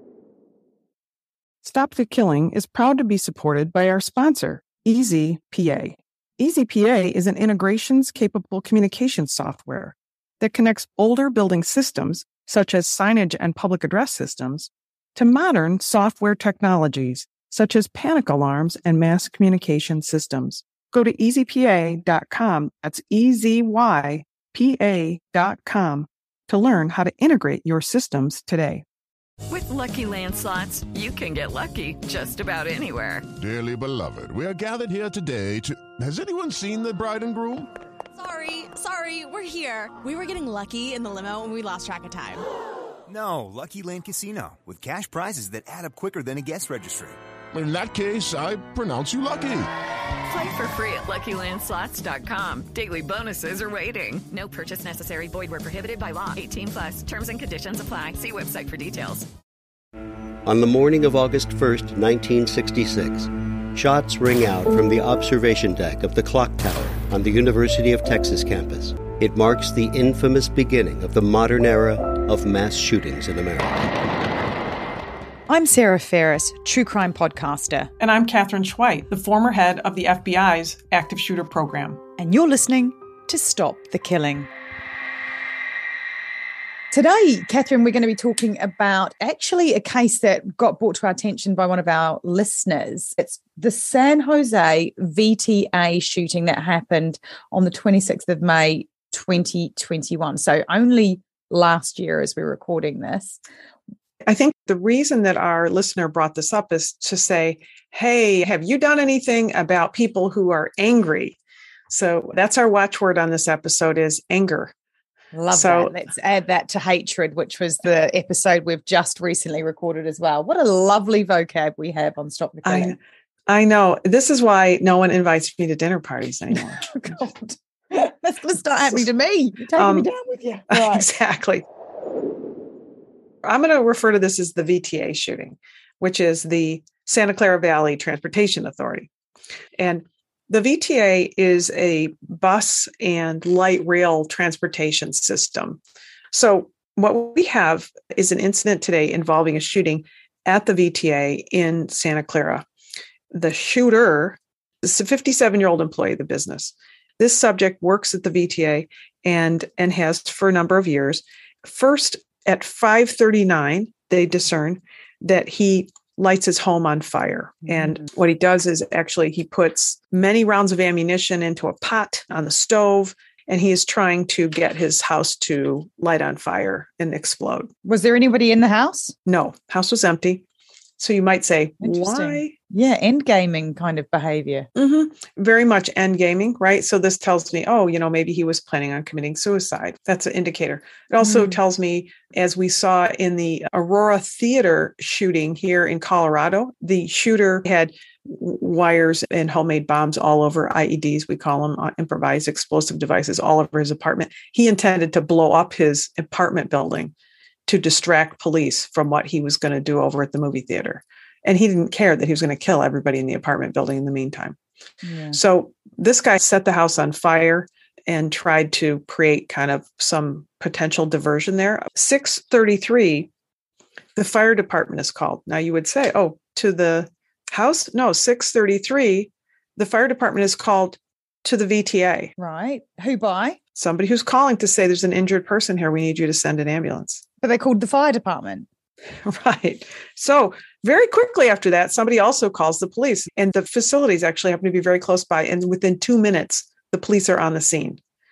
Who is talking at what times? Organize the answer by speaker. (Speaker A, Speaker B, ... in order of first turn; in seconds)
Speaker A: 1.6-28.9, 78.0-82.0, 104.2-111.4, 111.9-114.7, 115.5-115.9, 122.6-127.1, 129.8-130.1, 130.7-131.6, 133.4-139.1, 139.8-145.8, 146.3-152.7, 153.3-177.7, 179.2-180.4, 181.0-182.5, 184.7-207.1, 207.7-214.6, 215.3-223.3, 224.2-232.3, 233.8-237.2, 239.2-248.0
Speaker B: 29.5-33.2, 50.3-59.3
Speaker C: 33.4-37.7, 47.5-49.7
Speaker D: 38.2-42.5
Speaker E: 43.1-47.2
Speaker F: 60.5-74.0
Speaker G: 75.5-77.9, 82.2-84.5, 86.9-103.4, 115.3-123.0, 126.5-131.1, 167.7-168.0, 177.8-179.1, 181.8-184.7, 191.2-191.6, 215.0-215.4, 232.4-233.6, 237.4-238.7